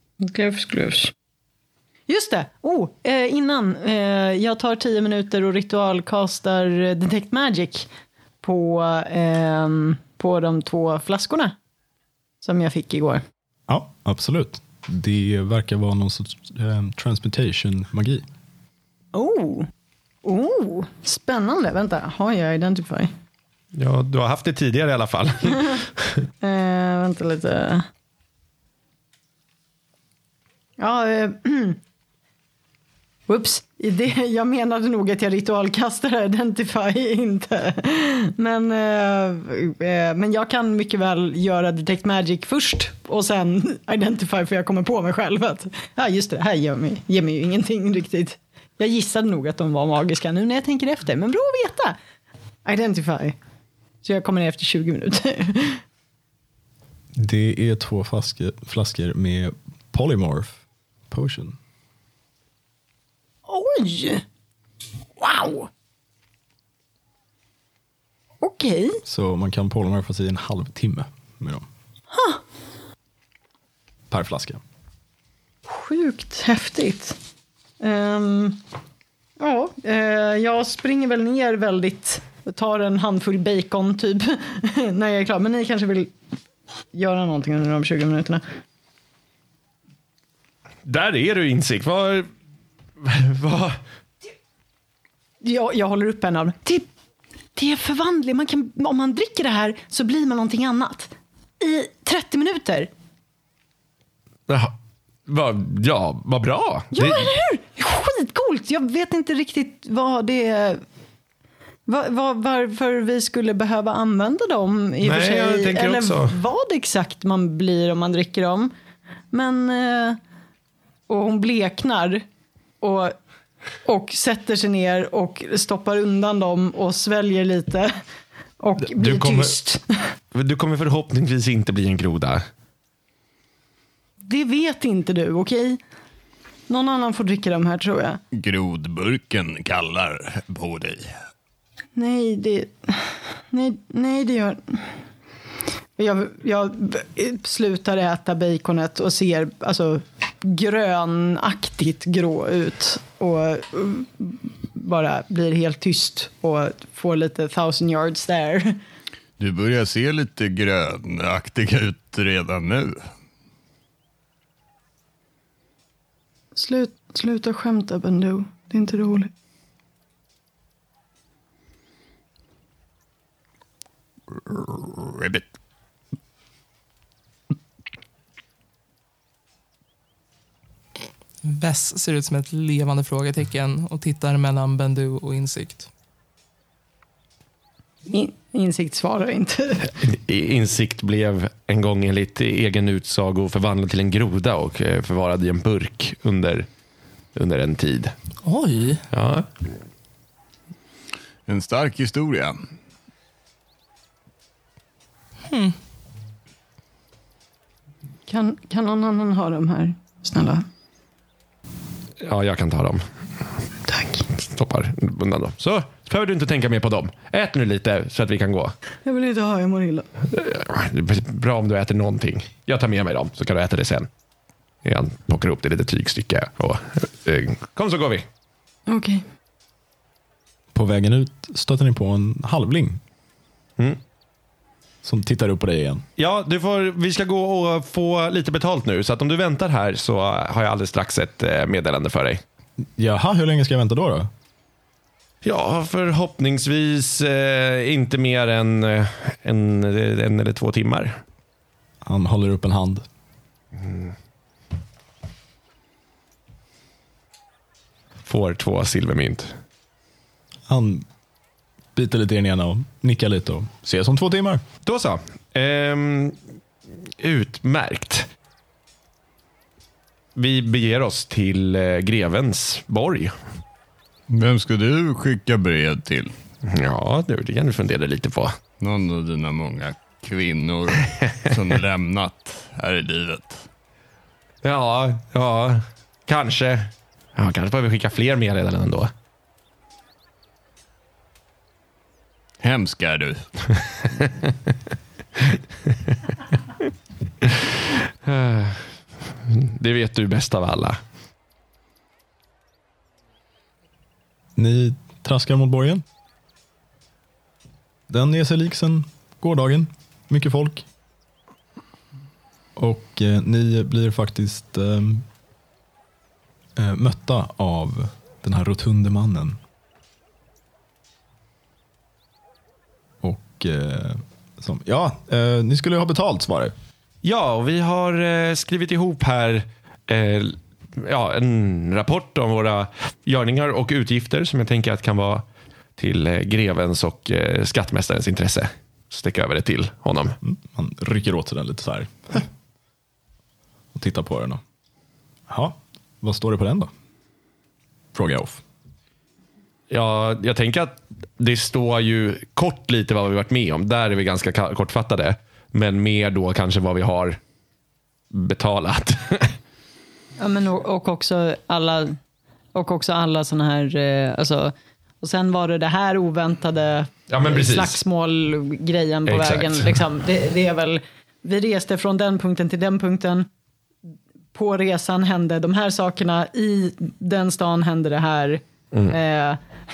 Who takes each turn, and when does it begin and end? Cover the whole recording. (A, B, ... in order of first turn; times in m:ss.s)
0:00.2-0:01.1 A
0:02.1-0:07.9 A
0:08.4-0:11.6 A
0:12.4-0:13.2 A
0:13.7-0:18.2 B
0:19.1-0:19.7 A
0:20.2-0:23.1 A
0:23.7-0:26.1 C
0:26.4-0:27.8 A
0:30.8-0:31.8 A
0:33.3-0:52.0 A
0:52.6-0:53.4 A
0:54.0-0:55.8 A
0:57.1-1:01.6 B
1:03.5-1:04.2 A
1:05.2-1:05.7 A
1:08.4-1:09.0 A
1:09.0-1:11.6 B
1:12.1-1:12.4 A
1:14.1-1:14.6 B
1:15.7-1:17.2 A
1:17.8-1:18.6 A
1:19.4-1:26.1 A
1:26.9-1:28.4 A
1:30.8-1:32.3 C
1:33.0-1:33.8 C
1:35.4-1:36.9 A
1:37.5-1:42.9 A
1:44.5-1:44.8 C
1:45.3-1:47.3 C
1:46.9-1:50.8 A
1:51.8-1:58.7 A
1:55.0-1:56.3 C
1:59.3-2:00.2 A
2:01.1-2:02.2 A
2:02.8-2:03.2 A
2:03.8-2:07.9 A
2:08.6-2:10.0 A
2:08.9-2:09.6 C
2:10.3-2:12.4 C
2:14.2-2:15.8 A
2:16.7-2:18.2 A
2:18.3-2:21.1 D
2:22.0-2:25.0 A
2:26.0-2:38.8 A
2:39.4-2:43.1 D
2:46.6-2:49.3 A
2:54.3-2:55.5 D
3:01.4-3:05.9 E
3:08.1-3:09.9 A
3:10.0-3:16.7 C
3:17.3-3:18.1 C
3:18.4-3:19.0 E
3:19.1-3:19.5 C
3:21.5-3:22.6 D
3:25.5-3:25.8 E
3:28.3-3:30.6 A
3:32.2-3:33.0 C
3:33.9-3:34.2 A
3:34.4-3:38.7 C
3:39.0-3:40.1 A
3:40.3-3:44.1 C
3:44.8-3:48.2 C
3:48.9-3:49.2 A
3:50.7-3:53.0 B
3:55.0-3:56.0 B
3:56.2-4:02.4 C
4:03.0-4:04.3 B
4:05.4-4:11.2 C
4:12.0-4:13.0 B
4:13.8-4:14.1 C
4:18.2-4:19.5 C
4:20.7-4:21.0 B
4:21.9-4:24.6 B
4:24.8-4:26.4 C
4:27.1-4:28.3 C
4:30.4-4:33.3 C
4:34.3-4:36.3 D
4:36.6-4:38.6 C
4:38.8-4:43.7 D
4:44.6-4:49.1 C
4:52.6-4:53.8 D
4:58.2-5:01.0 C
5:04.6-5:06.0 B
5:08.1-5:10.8 B
5:12.8-5:15.2 B
5:16.8-5:19.6 B
5:23.2-5:26.7 B
5:27.2-5:35.4 C
5:36.0-5:40.4 C
5:40.4-5:42.5 B
5:43.9-5:44.6 B
5:45.5-5:46.9 B
5:48.1-5:48.6 B
5:49.9-5:57.4 C
5:58.3-5:59.5 C
6:00.4-6:02.2 A
6:02.7-6:13.5 A
6:07.3-6:08.0 C
6:09.3-6:10.0 C
6:14.5-6:19.6 A